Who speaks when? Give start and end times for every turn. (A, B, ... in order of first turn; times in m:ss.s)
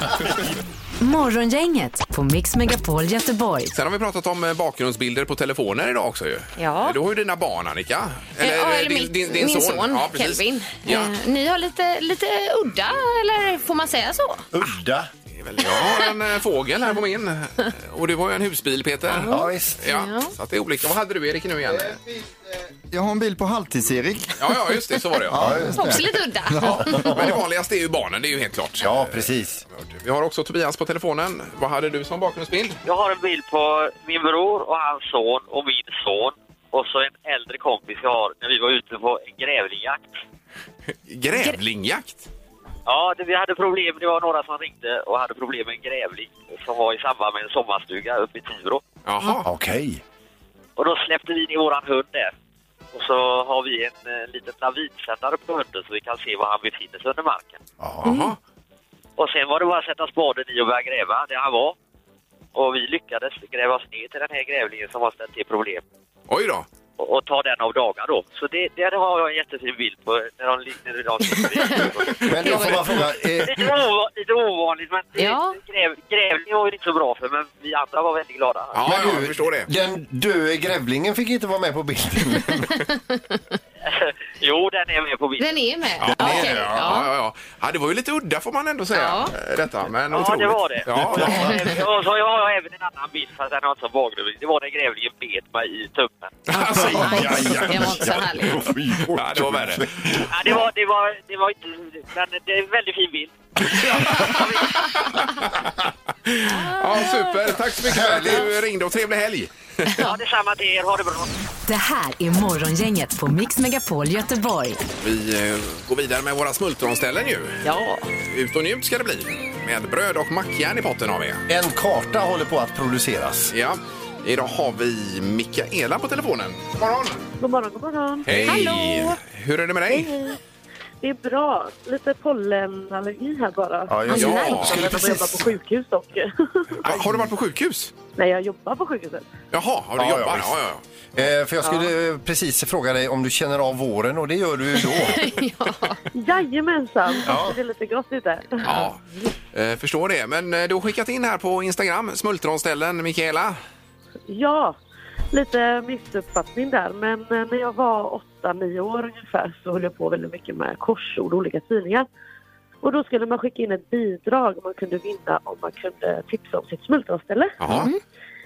0:01.0-0:03.7 A
0:03.7-0:11.1 B
0:06.6-0:07.0 C
0:08.4-0:14.5 C
0:14.5-0:15.1 D
0:15.4-0:22.0 B
0:15.6-0:16.1 C
0:19.1-0:20.3 C
0:19.3-0:19.8 D
0:21.7-0:26.8 E
0:24.4-0:25.5 B
0:25.3-0:26.0 D
0:25.7-0:27.1 C
0:26.6-0:32.8 B
0:26.9-0:27.3 D
0:28.8-0:29.6 D
0:32.8-0:40.1 F
0:41.1-0:42.3 B
0:42.9-0:48.8 F
0:49.0-0:49.5 B
0:49.4-0:50.0 D
0:50.8-0:52.3 F
0:52.9-0:57.6 F
0:57.8-0:58.1 D
0:58.0-0:58.4 B
0:59.2-1:01.8 F
1:02.6-1:05.8 F
1:06.3-1:06.7 B
1:07.0-1:12.7 F
1:11.4-1:11.7 C
1:12.2-1:13.7 D
1:12.4-1:12.9 C
1:13.4-1:18.8 F
1:15.2-1:15.6 C
1:18.7-1:19.7 B
1:18.9-1:22.7 D
1:22.6-1:23.4 C
1:23.9-1:25.6 F
1:25.4-1:27.1 C
1:26.0-1:31.7 B
1:26.1-1:26.5 D
1:28.9-1:29.3 C
1:30.1-1:36.4 F
1:31.2-1:31.6 D
1:31.3-1:31.6 C
1:36.5-1:37.7 B
1:36.5-1:38.7 C
1:36.7-1:40.6 D
1:39.1-1:40.3 B
1:40.3-1:43.4 F
1:44.1-1:44.8 F
1:45.0-1:45.5 B
1:46.3-1:49.5 B
1:46.5-1:47.4 C
1:47.8-1:48.5 D
1:50.0-1:51.3 F
1:51.7-1:54.8 A
1:55.0-1:57.6 B
1:57.6-1:58.1 C
1:58.2-2:01.4 B
2:01.5-2:03.5 D
2:03.5-2:07.2 B
2:07.4-2:08.7 G
2:08.3-2:10.2 B
2:08.4-2:09.2 C
2:09.9-2:10.4 G
2:11.0-2:16.8 G
2:13.9-2:15.5 D
2:14.1-2:15.1 B
2:14.1-2:14.5 C
2:16.8-2:17.9 B
2:16.8-2:17.3 D
2:18.2-2:19.3 G
2:19.5-2:20.8 B
2:20.0-2:20.6 D
2:21.1-2:25.2 D
2:21.6-2:21.9 G
2:24.8-2:26.0 C
2:26.1-2:28.9 G
2:27.3-2:27.6 D
2:28.6-2:29.0 B
2:29.5-2:33.6 B
2:34.3-2:34.8 G
2:35.3-2:42.1 G
2:42.8-2:47.6 G
2:47.6-2:47.9 B
2:47.7-2:48.0 C